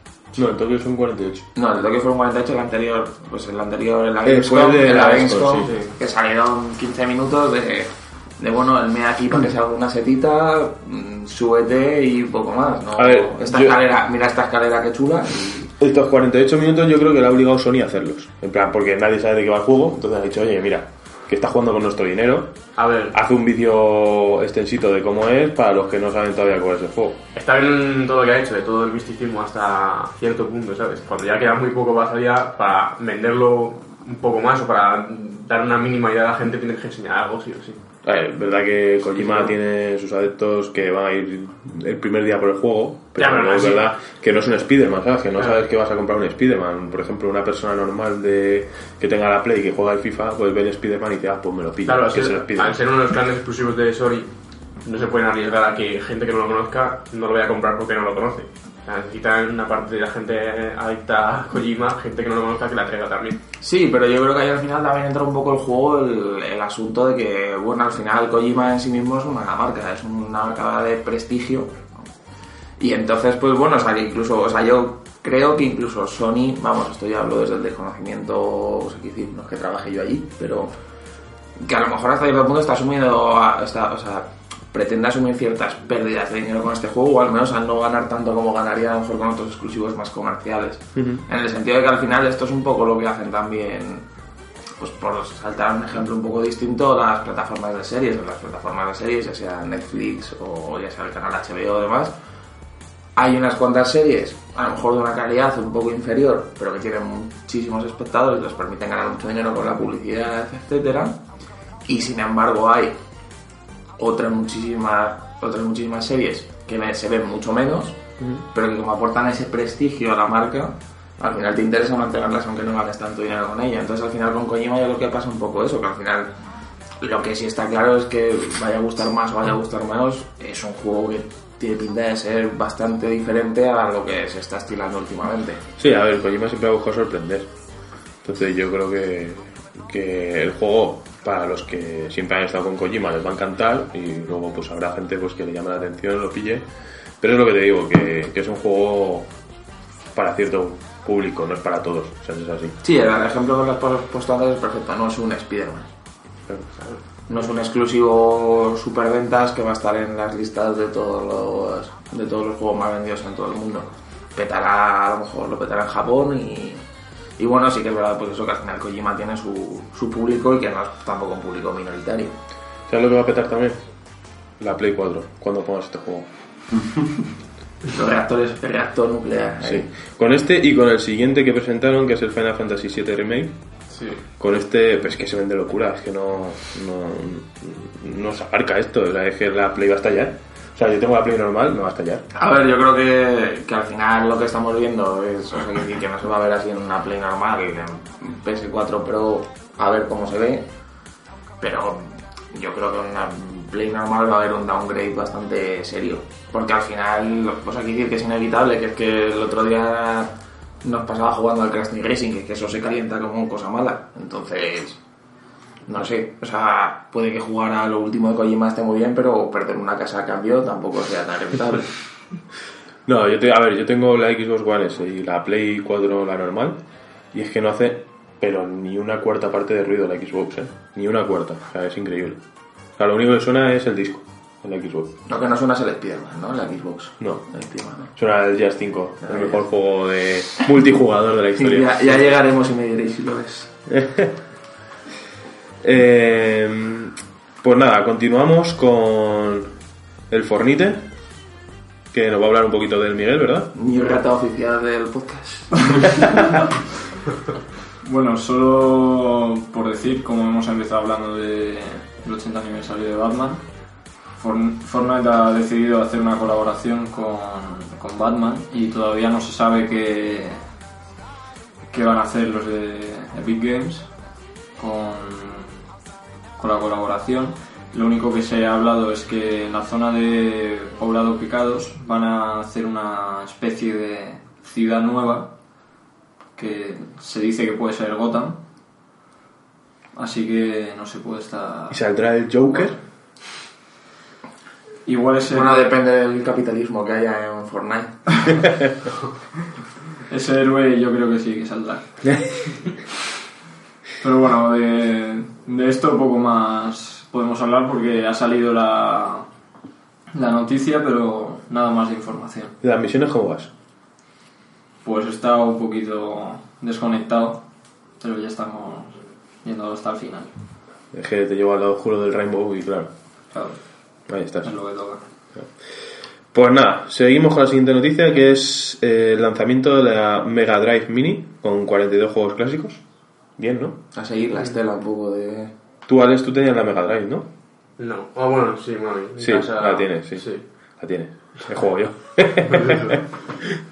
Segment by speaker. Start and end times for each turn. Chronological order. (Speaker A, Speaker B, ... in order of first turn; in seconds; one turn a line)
Speaker A: 0.3-1.5
Speaker B: 1.6-15.7
Speaker A: 4.2-5.8
Speaker A: 13.0-13.8
Speaker A: 15.4-22.6
Speaker C: 22.8-23.2
Speaker A: 23.1-27.2
Speaker C: 27.3-37.8
Speaker A: 38.0-52.8
Speaker C: 39.2-39.5
Speaker C: 43.2-43.9
Speaker C: 51.9-63.4
Speaker B: 63.6-71.8
Speaker B: 72.8-80.8
Speaker B: 81.6-94.1
Speaker A: 91.0-91.2
Speaker B: 94.8-102.1
Speaker B: 103.2-111.2
Speaker B: 111.9-113.0
Speaker B: 114.0-118.0
Speaker B: 118.5-126.3
Speaker B: 127.0-135.6
Speaker A: 135.8-137.5
Speaker A: 138.2-146.7
Speaker A: 147.2-149.3
Speaker A: 150.2-152.8
Speaker B: 152.8-155.9
Speaker B: 157.3-166.8
Speaker B: 167.4-172.3
Speaker A: 172.9-173.8
Speaker A: 174.6-176.3
Speaker B: 177.9-179.9
Speaker A: 179.6-183.6
Speaker C: 183.9-184.2
Speaker A: 184.4-192.2
Speaker B: 192.3-200.7
Speaker B: 201.6-210.3
Speaker B: 210.8-215.0
Speaker B: 215.9-221.9
Speaker A: 223.1-226.8
Speaker A: 227.3-232.4
Speaker A: 233.0-235.2
Speaker B: 235.3-238.1
Speaker A: 238.2-242.2
Speaker B: 239.2-239.6
Speaker B: 241.6-243.7
Speaker A: 243.9-244.4
Speaker A: 245.8-249.7
Speaker A: 250.3-251.0
Speaker A: 252.1-253.7
Speaker B: 253.7-256.2
Speaker D: 258.0-270.7
Speaker D: 271.9-274.2
Speaker D: 274.8-275.8
Speaker D: 276.6-285.6
Speaker D: 286.6-288.6
Speaker D: 290.1-292.0
Speaker A: 291.9-293.0
Speaker D: 295.1-295.9
Speaker B: 295.5-298.7
Speaker D: 300.3-302.9
Speaker D: 304.2-309.5
Speaker D: 310.3-312.8
Speaker A: 312.8-313.7
Speaker D: 315.0-317.6
Speaker D: 318.2-320.6
Speaker A: 321.1-323.1
Speaker D: 323.5-325.2
Speaker A: 324.3-324.7
Speaker A: 325.5-333.0
Speaker A: 333.6-334.0
Speaker B: 334.1-335.7
Speaker A: 336.1-337.5
Speaker C: 338.0-340.6
Speaker A: 339.4-343.2
Speaker C: 342.7-343.3